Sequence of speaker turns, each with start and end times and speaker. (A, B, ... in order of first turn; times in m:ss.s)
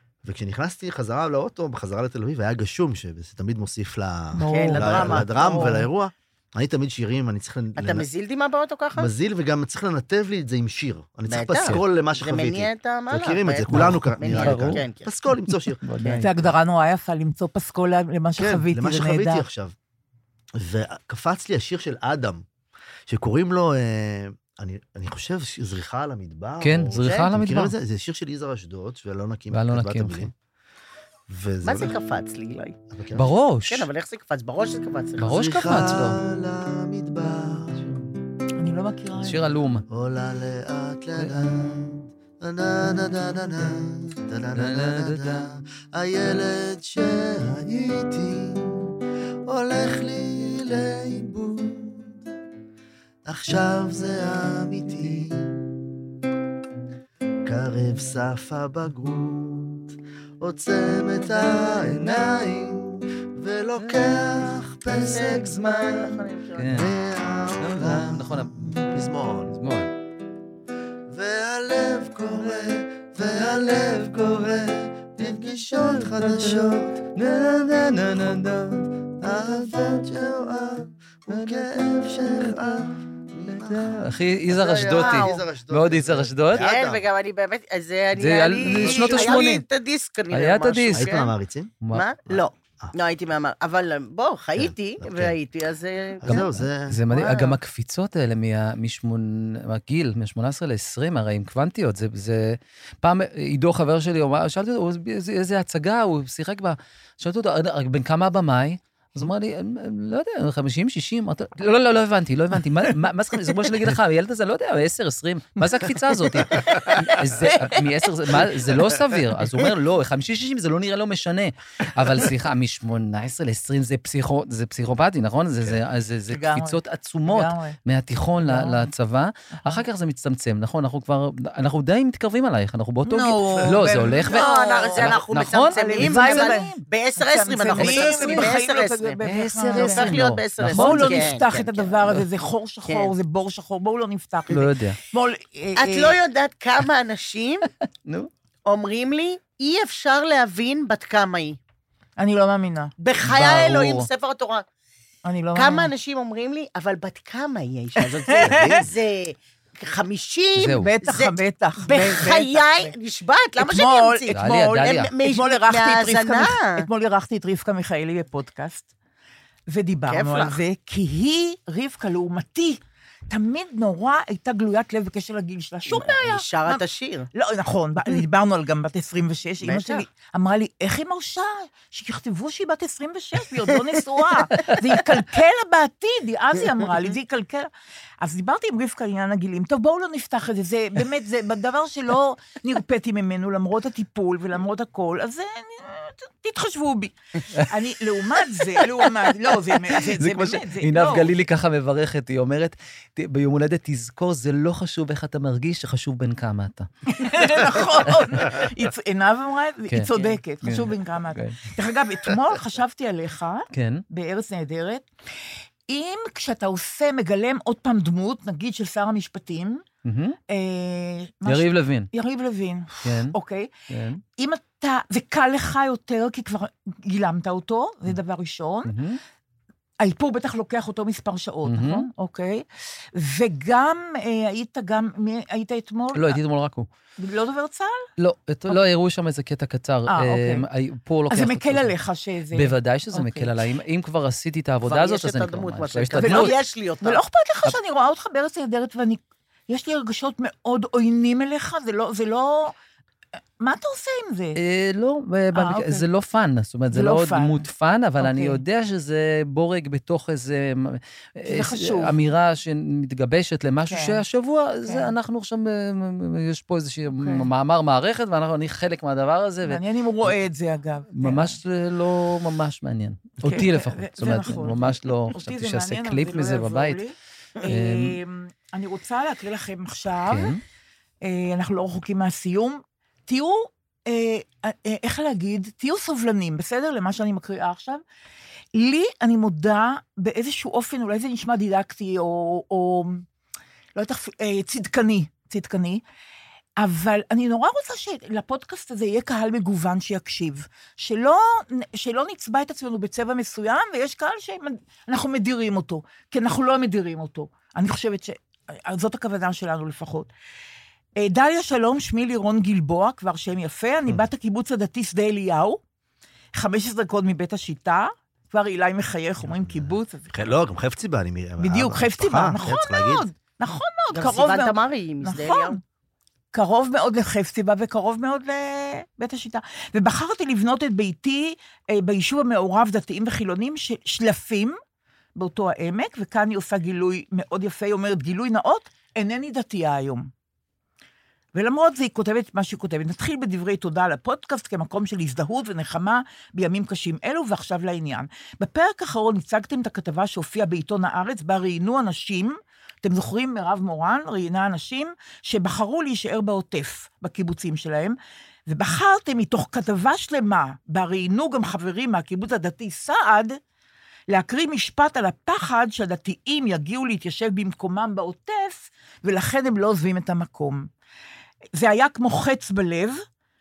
0:00.2-0:08.0 A
0:04.3-0:05.9 B
0:04.5-0:05.8 C
0:07.8-0:09.1 C
0:09.0-0:16.5 A
0:11.3-0:15.1 C
0:13.7-0:14.8 D
0:15.4-0:16.2 D
0:16.2-0:19.5 B
0:18.4-0:19.8 A
0:20.6-0:22.4 A
0:23.1-0:30.3 A
0:26.6-0:27.7 D
0:29.5-0:30.3 D
0:31.3-0:32.0 A
0:31.6-0:32.8 C
0:32.9-0:33.3 A
0:33.1-0:33.9 D
0:33.7-0:35.4 C
0:35.2-0:36.2 D
0:35.3-0:38.0 A
0:38.6-0:39.4 B
0:39.2-0:39.9 D
0:39.9-0:48.9 A
0:41.2-0:41.5 D
0:44.6-0:45.5 D
0:49.5-0:52.2 A
0:53.3-0:55.6 A
0:57.4-1:09.6 A
1:03.8-1:04.3 D
1:04.9-1:06.8 C
1:06.6-1:06.9 D
1:07.6-1:09.9 D
1:11.1-1:27.0 A
1:15.8-1:18.9 D
1:21.3-1:21.8 D
1:23.5-1:26.7 D
1:24.9-1:25.4 C
1:26.6-1:31.3 C
1:28.1-1:29.6 D
1:28.7-1:29.5 A
1:30.3-1:31.1 D
1:30.9-1:31.7 A
1:31.9-1:36.5 C
1:32.3-1:32.9 A
1:34.6-1:35.4 A
1:36.2-1:37.0 A
1:36.3-2:16.8 D
1:37.1-1:37.6 C
2:06.3-2:07.8 B
2:08.5-2:08.9 B
2:13.0-2:26.2 B
2:14.3-2:19.2 C
2:17.7-2:18.6 D
2:19.2-2:21.4 D
2:19.7-2:22.2 C
2:22.9-2:23.1 C
2:24.5-2:25.0 D
2:25.8-2:27.7 C
2:28.7-2:31.6 C
2:32.2-2:32.9 B
2:33.0-2:34.6 C
2:33.2-2:34.1 D
2:35.2-2:35.9 B
2:35.6-2:46.9 C
2:38.0-2:38.8 B
2:40.6-2:40.9 D
2:40.8-2:42.9 B
2:43.6-2:48.9 B
2:44.3-2:45.1 D
2:49.7-2:56.8 B
2:50.1-2:50.6 C
2:55.9-2:57.3 C
2:57.3-3:07.7 B
2:59.6-3:00.1 C
3:04.4-3:04.7 C
3:08.2-3:21.3 B
3:19.9-3:28.7 D
3:27.1-3:35.0 B
3:29.9-3:31.6 D
3:33.7-3:34.0 D
3:35.9-3:39.8 B
3:40.0-3:40.4 D
3:40.5-3:43.7 B
3:41.5-3:42.1 D
3:43.0-3:43.4 D
3:43.9-3:44.2 D
3:44.4-3:48.9 B
3:48.9-3:49.2 D
3:50.0-3:52.6 B
3:51.6-3:52.1 D
3:53.2-3:56.4 B
3:56.1-3:56.9 D
3:57.2-3:58.0 B
3:58.2-4:01.9 D
4:00.1-4:00.7 B
4:01.3-4:03.6 B
4:02.5-4:06.6 D
4:04.8-4:07.2 C
4:06.2-4:12.7 B
4:13.6-4:14.6 B
4:14.6-4:30.3 D
4:15.5-4:16.1 B
4:16.9-4:17.7 B
4:18.2-4:18.6 B
4:21.4-4:22.2 B
4:23.9-4:24.2 B
4:24.8-4:25.1 B
4:27.1-4:27.5 B
4:29.6-4:31.6 B
4:31.1-4:37.0 D
4:33.4-4:40.5 B
4:37.6-4:38.2 D
4:40.3-4:40.6 D
4:41.2-4:48.0 B
4:48.7-4:53.3 B
4:54.0-4:56.0 B
4:56.8-5:10.3 B
5:11.2-5:15.8 B
5:16.6-5:20.3 B
5:19.4-5:23.3 A
5:21.6-5:25.8 B
5:24.1-5:25.8 C
5:26.5-5:34.8 B
5:35.4-5:40.3 B
5:41.5-6:03.6 B
6:04.3-6:10.9 B
6:11.8-6:13.2 B